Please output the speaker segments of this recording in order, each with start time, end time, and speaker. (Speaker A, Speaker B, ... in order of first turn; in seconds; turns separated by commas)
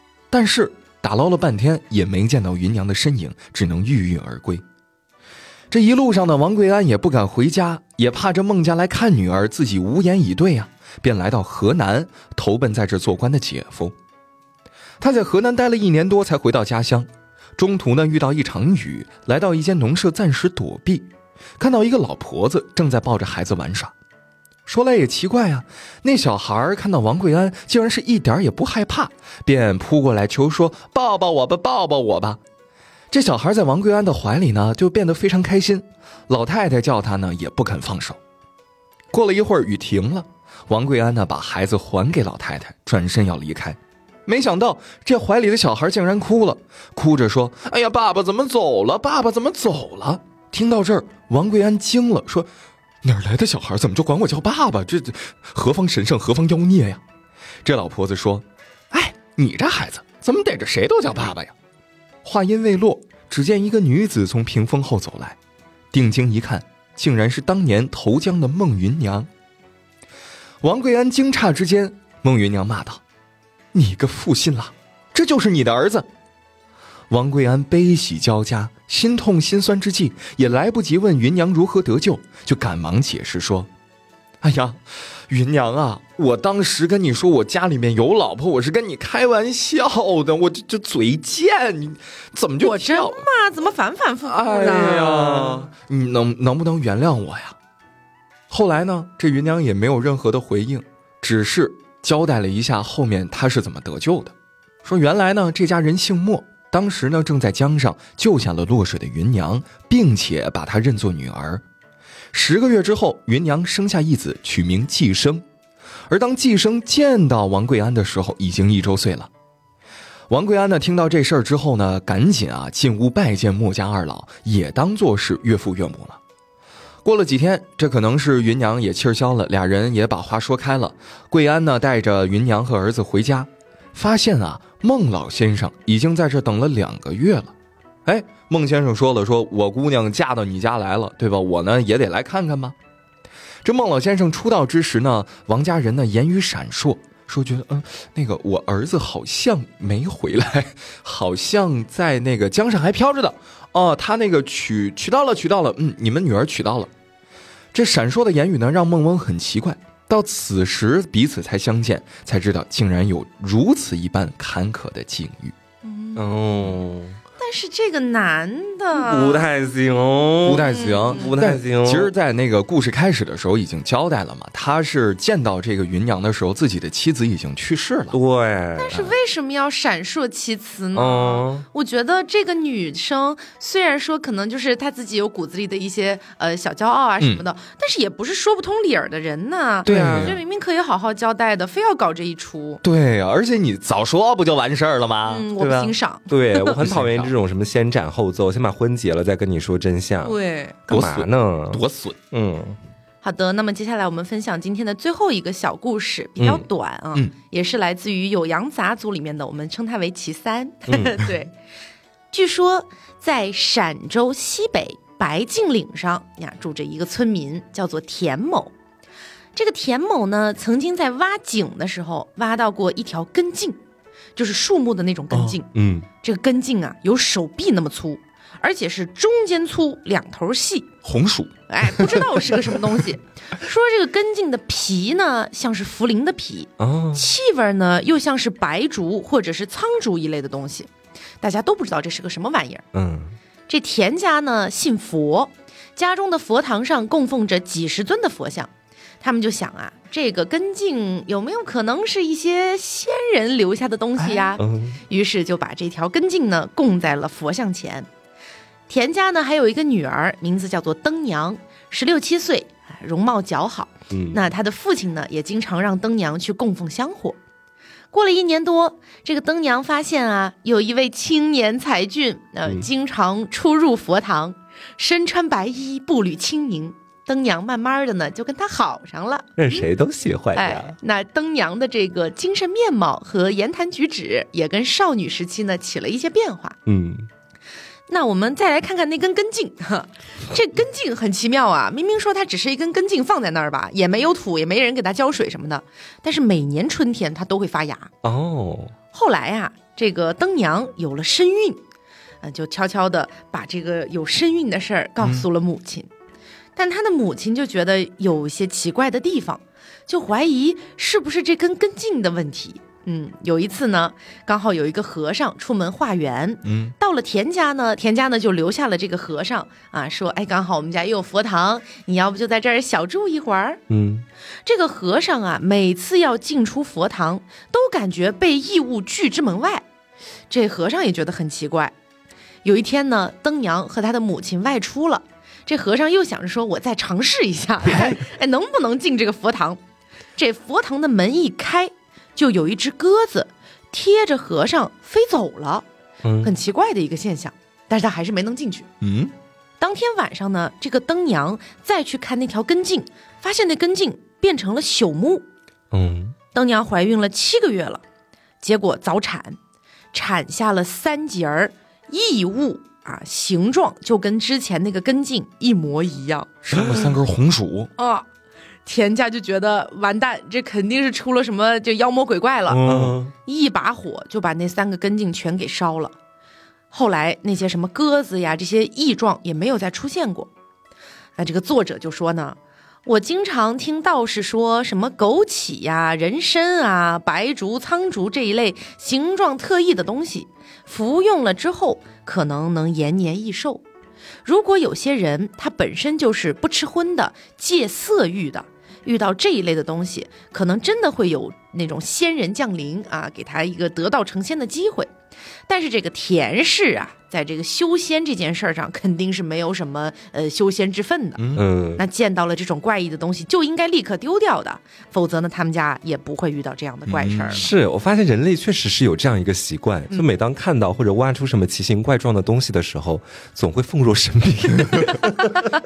Speaker A: 0.3-4.6, Speaker A: 5.7-13.9, Speaker A: 15.0-21.1, Speaker A: 21.6-23.9, Speaker A: 24.7-32.4, Speaker A: 33.1-38.2, Speaker A: 39.1-52.5, Speaker A: 53.0-57.0, Speaker A: 57.6-61.5, Speaker A: 62.2-65.4, Speaker A: 65.9-69.3, Speaker A: 70.6-73.0, Speaker A: 73.7-76.1, Speaker A: 77.1-83.7, Speaker A: 84.4-93.3, Speaker B: 92.6-95.1, Speaker A: 94.2-97.6, Speaker C: 94.6-95.7, Speaker A: 98.5-104.3, Speaker A: 104.8-111.6, Speaker A: 112.3-115.5, Speaker A: 116.1-119.3, Speaker A: 120.3-126.2, Speaker A: 127.0-137.5, Speaker A: 138.1-142.8, Speaker A: 143.6-156.9, Speaker A: 157.7-165.6, Speaker B: 165.8-166.3, Speaker C: 166.2-167.2, Speaker B: 167.4-169.5, Speaker C: 168.9-172.1, Speaker A: 170.4-178.2, Speaker B: 170.7-171.3, Speaker C: 178.1-179.2, Speaker B: 178.8-192.8, Speaker C: 180.9-181.7, Speaker C: 189.8-190.4, Speaker A: 189.9-190.4, Speaker A: 192.8-195.5, Speaker B: 195.3-196.7, Speaker C: 195.6-200.4, Speaker A: 196.8-197.3, Speaker B: 200.2-201.0, Speaker C: 200.9-202.8, Speaker A: 200.9-202.2, Speaker B: 203.2-211.5, Speaker C: 206.4-206.7, Speaker C: 210.9-211.3, Speaker B: 212.3-218.7, Speaker B: 219.6-223.8, Speaker B: 224.4-225.7, Speaker C: 225.7-226.1, Speaker B: 226.2-230.9, Speaker A: 231.0-231.5, Speaker B: 231.7-240.9, Speaker C: 236.8-237.3, Speaker B: 241.4-242.9, Speaker C: 242.9-243.3, Speaker B: 243.7-258.1, Speaker C: 254.6-255.0, Speaker B: 258.9-267.4, Speaker C: 264.1-264.4, Speaker B: 268.1-279.9, Speaker C: 279.6-281.0, Speaker B: 280.6-286.8, Speaker C: 286.9-287.3, Speaker B: 288.1-298.1, Speaker C: 298.2-298.9, Speaker B: 299.1-301.8, Speaker B: 302.4-306.1, Speaker B: 306.8-323.8, Speaker A: 316.6-316.9, Speaker C: 323.9-324.2, Speaker B: 324.6-329.9, Speaker B: 330.5-331.9, Speaker B: 332.6-339.8, Speaker B: 340.4-345.9, Speaker C: 346.2-346.5, Speaker B: 346.4-348.9, Speaker A: 349.0-349.3, Speaker B: 349.8-355.4, Speaker C: 355.9-356.4, Speaker B: 356.5-358.0, Speaker B: 358.6-359.6, Speaker B: 360.1-366.6, Speaker A: 366.6-367.9, Speaker B: 368.0-368.3, Speaker B: 368.9-376.1, Speaker C: 372.7-373.3, Speaker B: 376.9-380.5, Speaker B: 381.4-393.8, Speaker B: 394.4-405.1, Speaker B: 405.7-411.4, Speaker A: 411.4-411.6, Speaker C: 411.6-412.0, Speaker B: 412.0-417.6, Speaker A: 417.1-417.6, Speaker C: 417.5-425.7